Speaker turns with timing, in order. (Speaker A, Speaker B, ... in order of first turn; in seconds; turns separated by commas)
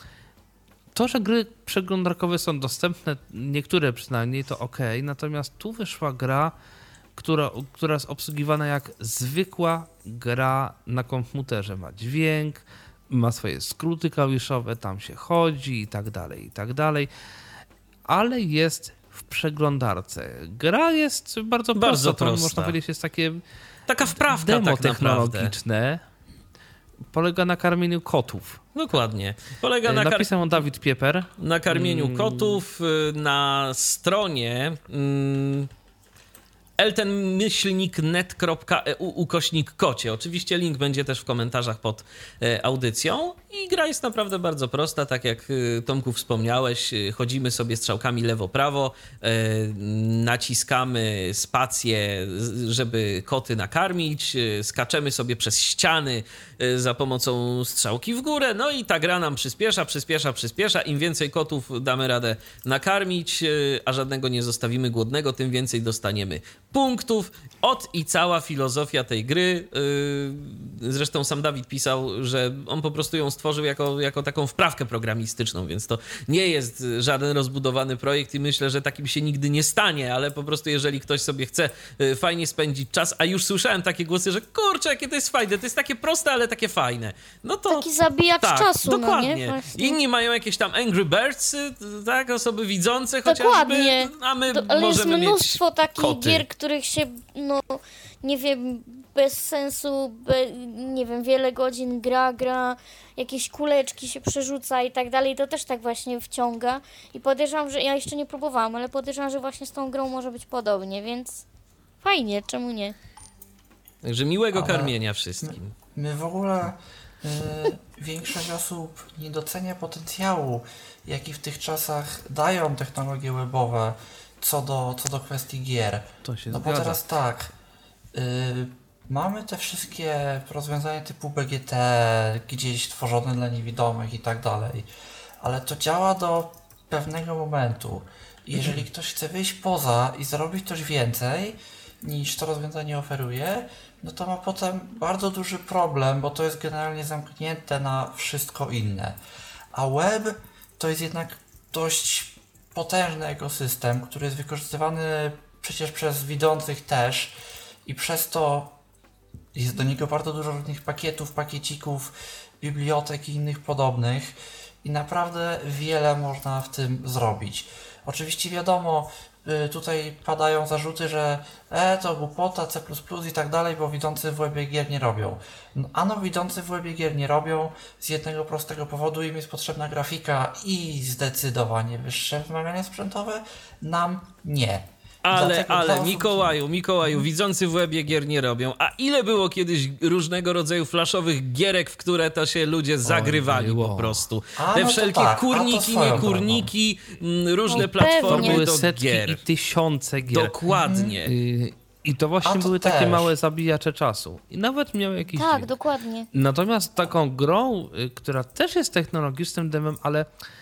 Speaker A: 0.9-6.5, Speaker A: 7.2-17.1, Speaker A: 18.1-23.4, Speaker B: 21.8-22.8, Speaker B: 23.9-25.6, Speaker A: 24.1-26.0, Speaker A: 27.1-28.6, Speaker B: 28.8-30.4, Speaker A: 29.8-32.6, Speaker B: 31.4-35.7, Speaker B: 36.8-96.5, Speaker C: 87.7-90.0, Speaker C: 93.3-111.4, Speaker C: 112.0-113.0, Speaker B: 114.0-115.7, Speaker D: 114.5-127.5, Speaker A: 126.2-127.0, Speaker D: 128.1-134.9, Speaker D: 135.4-149.2, Speaker D: 149.7-158.8, Speaker D: 159.6-186.6, Speaker B: 185.2-199.4, Speaker A: 193.0-194.3, Speaker D: 194.6-196.7, Speaker C: 197.7-198.6, Speaker A: 197.7-200.6, Speaker B: 200.3-201.3, Speaker D: 200.7-201.2, Speaker A: 201.2-205.7, Speaker D: 202.4-203.3, Speaker C: 205.3-206.3, Speaker A: 206.3-210.3